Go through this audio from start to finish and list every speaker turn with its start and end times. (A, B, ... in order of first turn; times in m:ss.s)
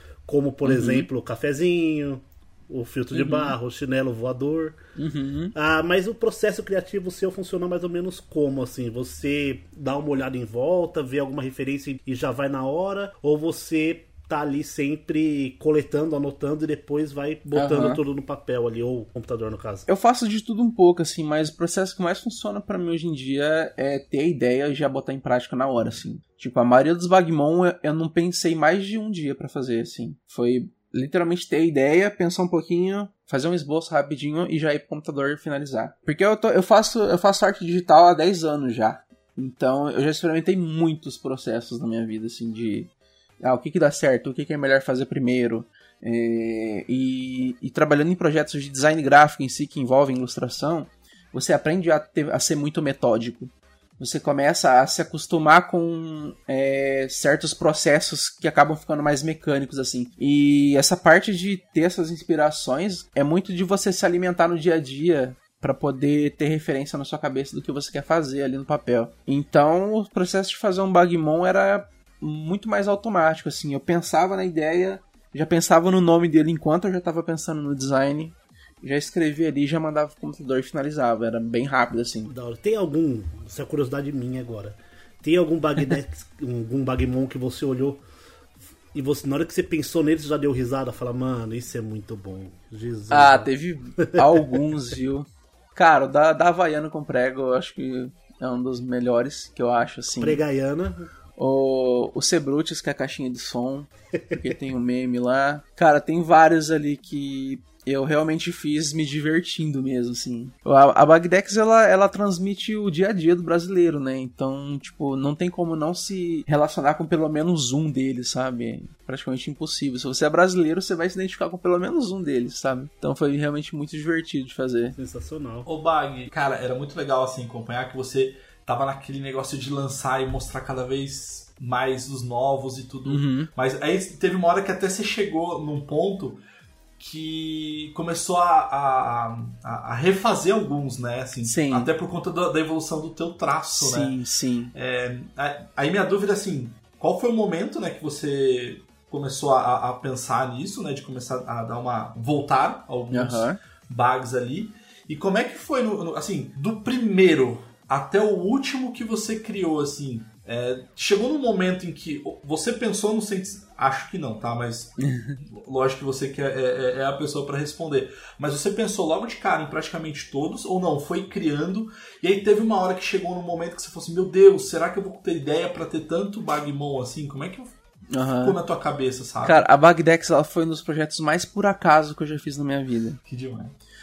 0:00.3-0:04.8 A
0:00.6-0:01.1 B
0:03.1-0:03.5 B
0:05.0-0:05.5 B
0:05.6-0:19.9 A
0:17.5-0:18.0 B
0:19.9-0:42.9 B
0:43.4-1:22.3 B
1:22.3-1:28.0 A
1:28.9-1:33.5 A
1:33.1-1:40.4 B
1:40.2-1:41.1 A
1:41.4-2:05.0 B
2:05.0-2:05.7 A
2:05.7-2:16.4 C
2:13.1-2:13.5 B
2:17.0-2:24.2 C
2:21.4-2:21.9 B
2:23.7-2:24.7 B
2:24.8-2:57.7 C
2:33.1-2:33.6 B
2:45.0-2:45.4 B
2:58.1-2:58.6 B
2:58.4-2:59.6 C
2:59.4-3:03.2 B
3:03.3-3:03.8 C